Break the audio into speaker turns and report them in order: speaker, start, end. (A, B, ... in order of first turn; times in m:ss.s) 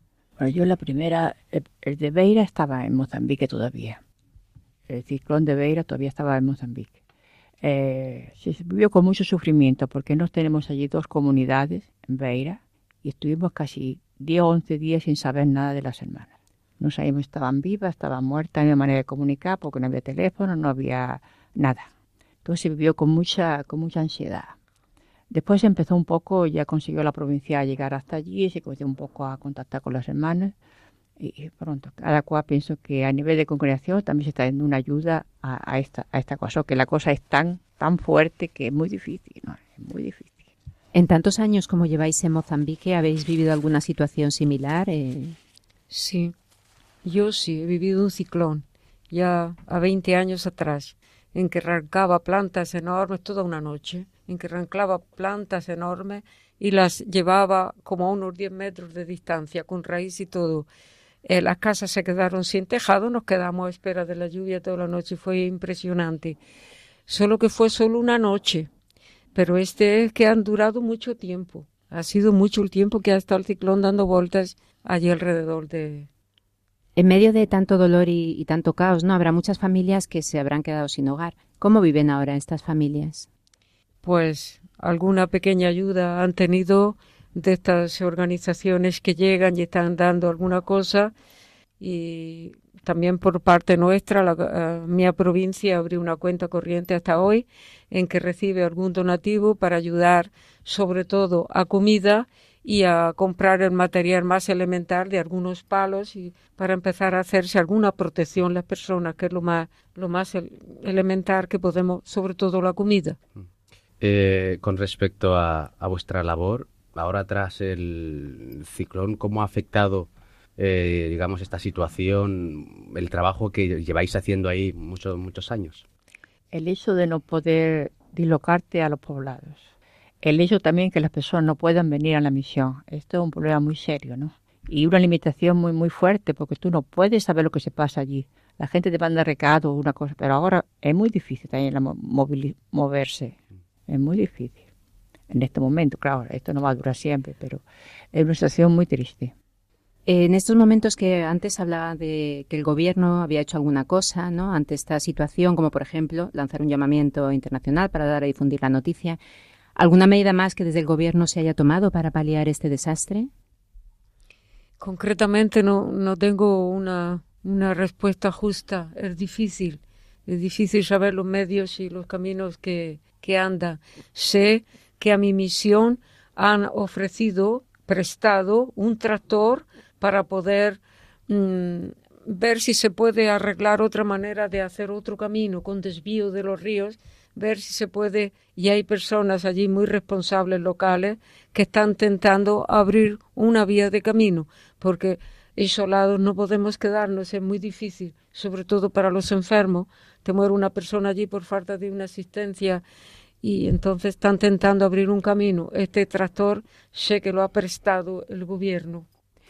0:00.4-0:04.0 A
0:04.9-0:07.0 A
0:07.6-0:21.9 A
0:22.4-0:24.6 A
0:25.3-0:30.6 A
0:31.2-0:40.5 A
0:40.9-0:45.4 B
0:45.9-0:46.3 C
0:47.0-1:00.7 C
1:01.2-1:06.4 C
1:07.1-1:08.7 C
1:09.4-1:16.1 C
1:17.0-1:23.3 B
1:24.0-1:31.1 C
1:31.8-1:53.2 C
1:54.0-2:05.8 D
2:06.5-2:09.7 A
2:10.2-2:24.6 A
2:25.3-2:29.3 A
2:30.1-2:39.2 B
2:39.8-2:43.3 B
2:44.8-3:22.8 C
3:23.4-3:29.1 C